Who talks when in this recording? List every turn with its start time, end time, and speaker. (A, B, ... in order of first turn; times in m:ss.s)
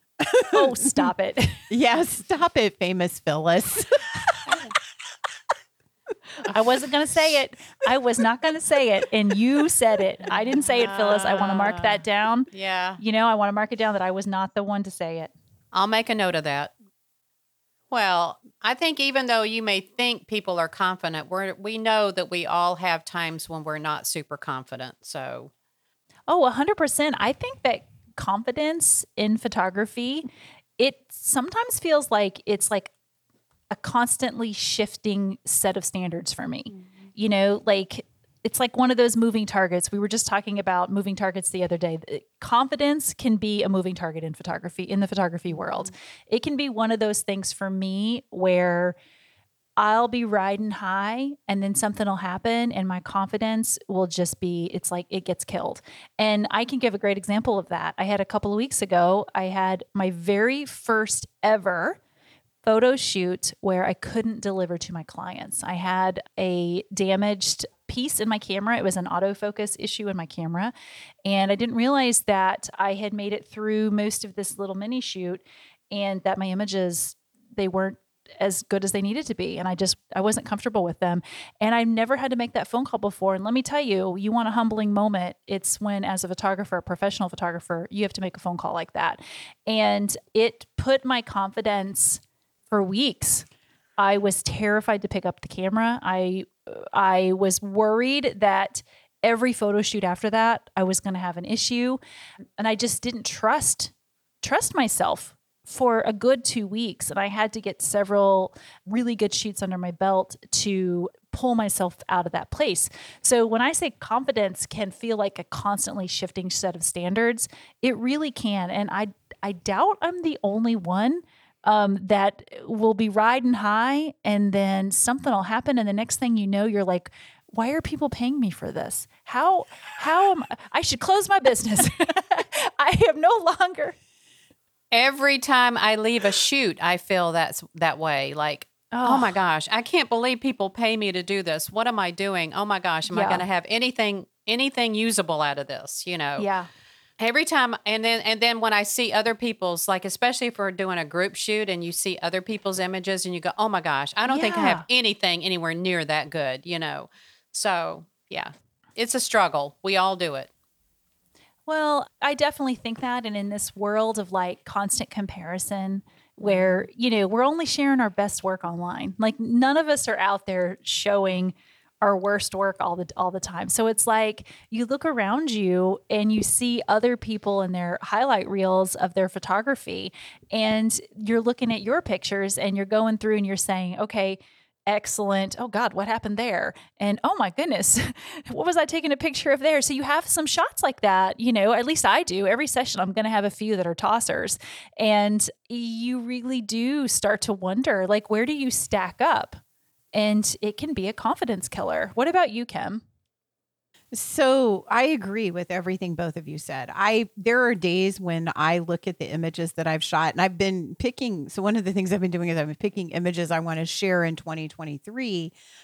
0:00.2-0:01.1 A
0:00.5-0:01.7 B
0:01.7-0:04.2 A
0:06.5-0:12.5 B
0:10.5-0:13.0 C
0:13.0-0:15.3 B
0:15.7-0:16.7 C
0:17.9-0:25.5 C
0:26.3-0:30.3 B
0:30.8-0:32.9 B
0:33.7-0:49.0 B
0:49.8-1:02.0 B
1:02.6-1:10.7 B
1:11.2-1:33.5 B
1:34.0-1:42.0 B
1:42.6-2:14.0 B
2:14.9-2:26.5 C
2:18.9-2:19.3 B
2:23.1-2:23.4 B
2:26.4-2:26.7 B
2:27.2-2:40.5 C
2:34.3-2:34.8 B
2:41.7-3:19.6 B
3:20.1-3:23.0 B
3:24.1-3:35.5 A